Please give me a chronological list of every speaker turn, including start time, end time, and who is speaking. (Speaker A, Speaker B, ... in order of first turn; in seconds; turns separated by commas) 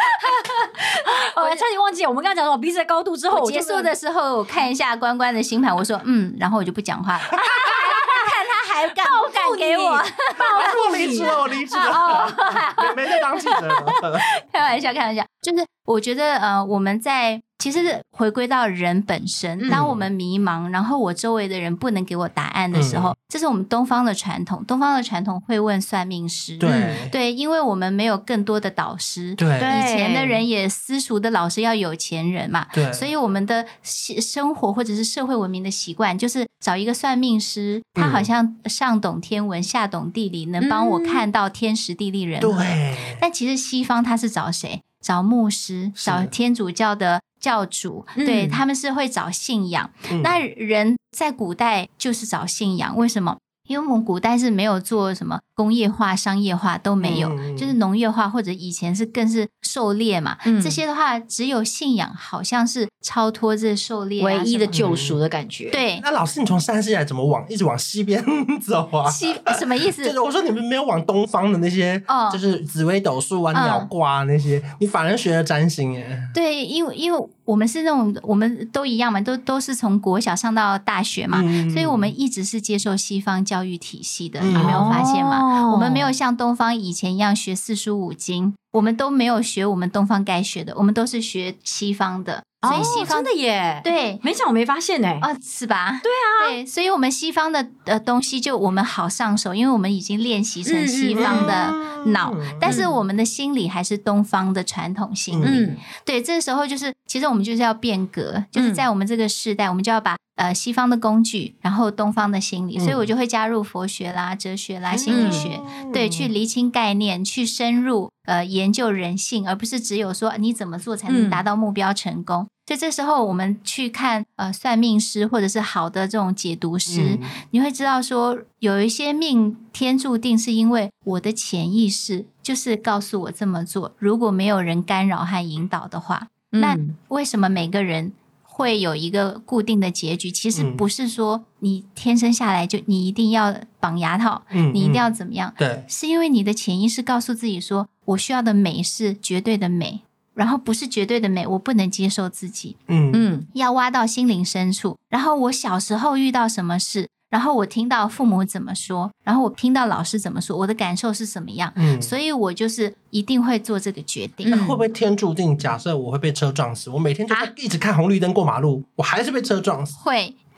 Speaker A: 0.2-3.9, Speaker B: 1.4-1.6, Speaker B: 3.3-64.9, Speaker A: 7.6-8.2, Speaker A: 9.0-11.3, Speaker C: 10.5-14.2, Speaker C: 19.7-20.1, Speaker C: 22.7-23.1, Speaker C: 26.6-27.1, Speaker C: 29.4-29.8, Speaker A: 29.6-30.4, Speaker C: 32.7-33.1, Speaker C: 38.0-38.3, Speaker A: 40.6-41.2, Speaker C: 42.4-43.2, Speaker C: 46.0-46.3, Speaker A: 48.2-48.6, Speaker C: 50.1-50.4, Speaker C: 57.0-57.7, Speaker A: 60.5-60.8, Speaker A: 64.2-65.8, Speaker C: 64.7-65.2, Speaker B: 65.7-66.0, Speaker C: 66.0-76.3, Speaker B: 69.0-70.1, Speaker B: 72.1-72.4, Speaker B: 73.5-73.9, Speaker B: 76.3-93.3, Speaker C: 81.3-82.1, Speaker C: 84.4-85.0, Speaker A: 84.5-86.1, Speaker A: 92.6-95.2, Speaker C: 92.7-93.1, Speaker B: 93.8-94.2, Speaker B: 95.2-152.8, Speaker A: 96.0-96.6, Speaker A: 100.7-101.6, Speaker C: 101.2-102.8, Speaker A: 102.6-102.9, Speaker C: 105.3-105.7, Speaker A: 105.4-105.8, Speaker A: 108.5-108.8, Speaker C: 112.8-113.1, Speaker C: 114.9-116.3, Speaker A: 115.1-115.5, Speaker A: 121.1-121.4, Speaker C: 126.9-127.3, Speaker A: 136.5-136.9, Speaker C: 140.5-140.8, Speaker C: 144.5-145.0, Speaker C: 145.6-145.8, Speaker C: 152.9-153.2, Speaker A: 153.1-153.4, Speaker B: 153.5-164.6, Speaker C: 161.8-162.1, Speaker A: 164.4-164.8, Speaker C: 164.5-170.0, Speaker B: 170.0-170.4